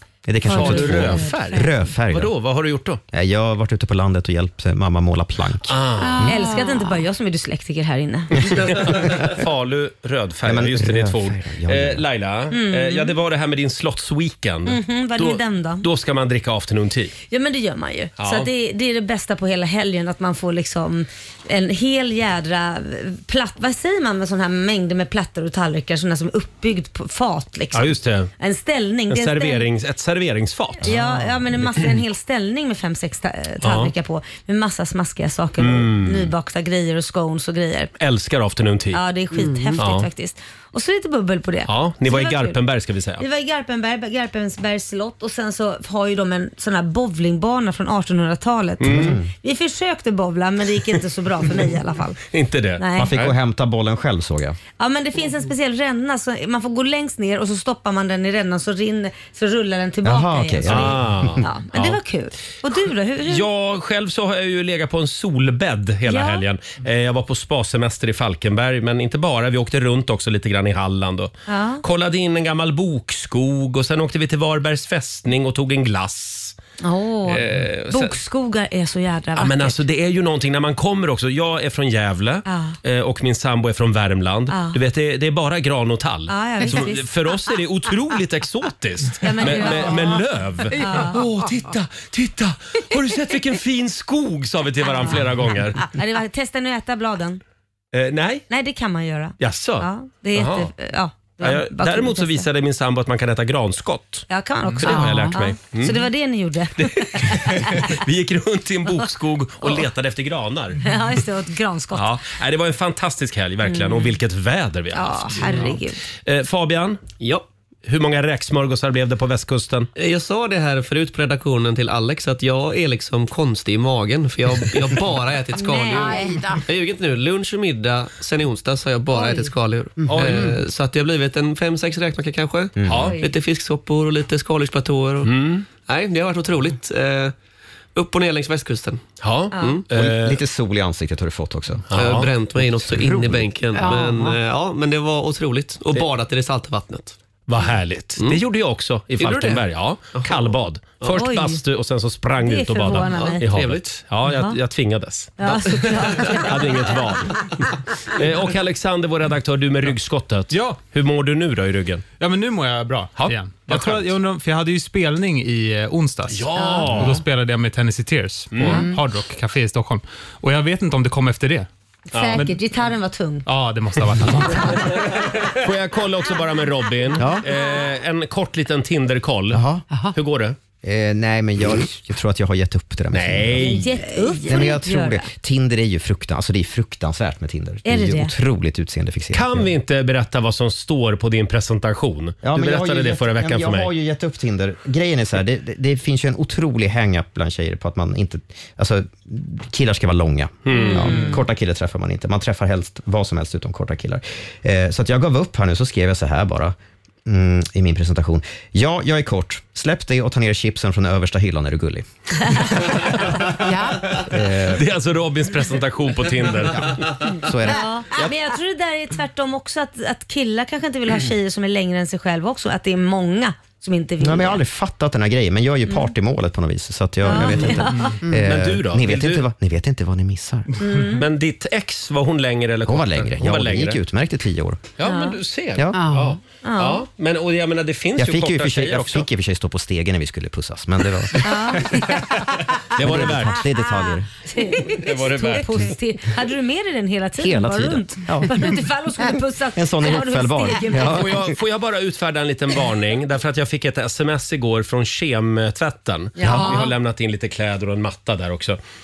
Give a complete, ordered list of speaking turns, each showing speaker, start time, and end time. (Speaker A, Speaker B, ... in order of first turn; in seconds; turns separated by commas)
Speaker A: 0.2-2.3, Speaker B: 0.5-3.0, Speaker C: 0.6-1.3, Speaker A: 3.1-6.3, Speaker B: 5.7-6.3, Speaker C: 6.0-7.0, Speaker D: 6.2-8.3, Speaker B: 8.6-17.1, Speaker A: 10.4-12.0, Speaker D: 12.5-13.1, Speaker D: 14.7-15.8, Speaker D: 17.3-29.6, Speaker B: 18.2-18.5, Speaker B: 27.7-28.3, Speaker B: 29.1-31.7, Speaker D: 30.8-37.9, Speaker B: 33.6-33.9, Speaker B: 35.6-36.3, Speaker B: 38.0-39.0, Speaker D: 38.9-42.6, Speaker C: 39.3-39.8, Speaker B: 39.8-40.1, Speaker B: 41.7-43.2, Speaker D: 43.2-52.2, Speaker B: 48.8-49.1, Speaker A: 48.9-49.3, Speaker B: 52.3-53.3, Speaker D: 52.8-53.1, Speaker A: 53.0-54.6, Speaker D: 54.8-63.5, Speaker A: 60.0-61.4, Speaker B: 60.6-62.0, Speaker B: 63.3-76.6, Speaker D: 66.1-66.4, Speaker D: 71.5-71.8, Speaker D: 76.8-79.8, Speaker B: 77.3-78.2, Speaker B: 79.3-95.8, Speaker D: 82.5-82.8, Speaker D: 84.5-84.8, Speaker D: 86.3-87.1, Speaker D: 89.2-90.2, Speaker D: 90.8-91.2, Speaker D: 94.8-95.2, Speaker D: 95.8-97.4, Speaker B: 97.9-98.4, Speaker D: 98.5-102.5, Speaker B: 99.4-100.7, Speaker B: 101.4-106.1, Speaker D: 104.3-107.9, Speaker C: 104.8-105.4, Speaker B: 106.8-110.8, Speaker D: 110.8-112.1, Speaker B: 111.9-117.1, Speaker D: 113.6-114.1, Speaker D: 114.9-116.0, Speaker E: 117.2-117.5, Speaker B: 117.8-119.9, Speaker E: 120.0-137.3, Speaker D: 125.5-126.4, Speaker C: 125.9-126.6, Speaker D: 129.1-129.5, Speaker A: 130.2-130.5, Speaker A: 132.8-133.1, Speaker B: 132.9-133.1, Speaker B: 135.2-135.6, Speaker E: 137.9-139.8, Speaker B: 139.2-140.4, Speaker D: 139.5-139.8, Speaker A: 139.9-141.9, Speaker B: 141.9-142.3, Speaker E: 141.9-147.2, Speaker A: 142.6-143.6, Speaker C: 143.7-144.4, Speaker B: 147.5-162.0, Speaker E: 149.2-149.6, Speaker E: 150.1-151.1, Speaker D: 151.1-151.6, Speaker D: 152.4-153.4, Speaker E: 153.1-153.9, Speaker D: 155.4-157.0, Speaker E: 155.5-155.9, Speaker F: 160.5-160.8, Speaker F: 162.2-171.7, Speaker B: 163.2-164.1, Speaker B: 166.3-167.2, Speaker D: 166.5-166.9, Speaker B: 168.5-168.9, Speaker D: 172.1-173.5, Speaker B: 172.1-172.4, Speaker F: 173.4-174.9, Speaker D: 174.5-174.9, Speaker B: 175.3-179.6, Speaker A: 177.2-177.4, Speaker A: 179.5-179.8, Speaker B: 180.1-180.6, Speaker A: 180.8-183.8, Speaker B: 183.1-183.9, Speaker D: 183.6-185.3, Speaker A: 184.5-189.7, Speaker D: 187.8-188.3, Speaker B: 189.3-193.9, Speaker A: 192.4-212.1, Speaker B: 200.7-201.2, Speaker D: 200.7-201.4, Speaker C: 213.5-214.2, Speaker A: 214.2-214.9, Speaker B: 214.7-217.2, Speaker A: 217.4-217.9, Speaker D: 217.7-224.6, Speaker A: 224.2-230.7, Speaker D: 225.9-226.1, Speaker D: 227.2-228.1, Speaker C: 228.2-228.5, Speaker B: 228.4-229.4, Speaker D: 230.8-231.2, Speaker B: 231.2-234.0, Speaker A: 232.8-234.9, Speaker B: 235.0-239.3, Speaker D: 235.0-235.4, Speaker C: 235.9-236.4, Speaker D: 236.6-237.0, Speaker A: 238.2-242.3, Speaker D: 241.4-242.2, Speaker B: 242.9-243.6, Speaker A: 242.9-244.3, Speaker D: 244.4-251.3, Speaker B: 244.9-245.9, Speaker A: 247.4-248.7, Speaker A: 249.7-251.5, Speaker B: 251.0-258.8, Speaker D: 256.4-256.8, Speaker C: 256.4-256.9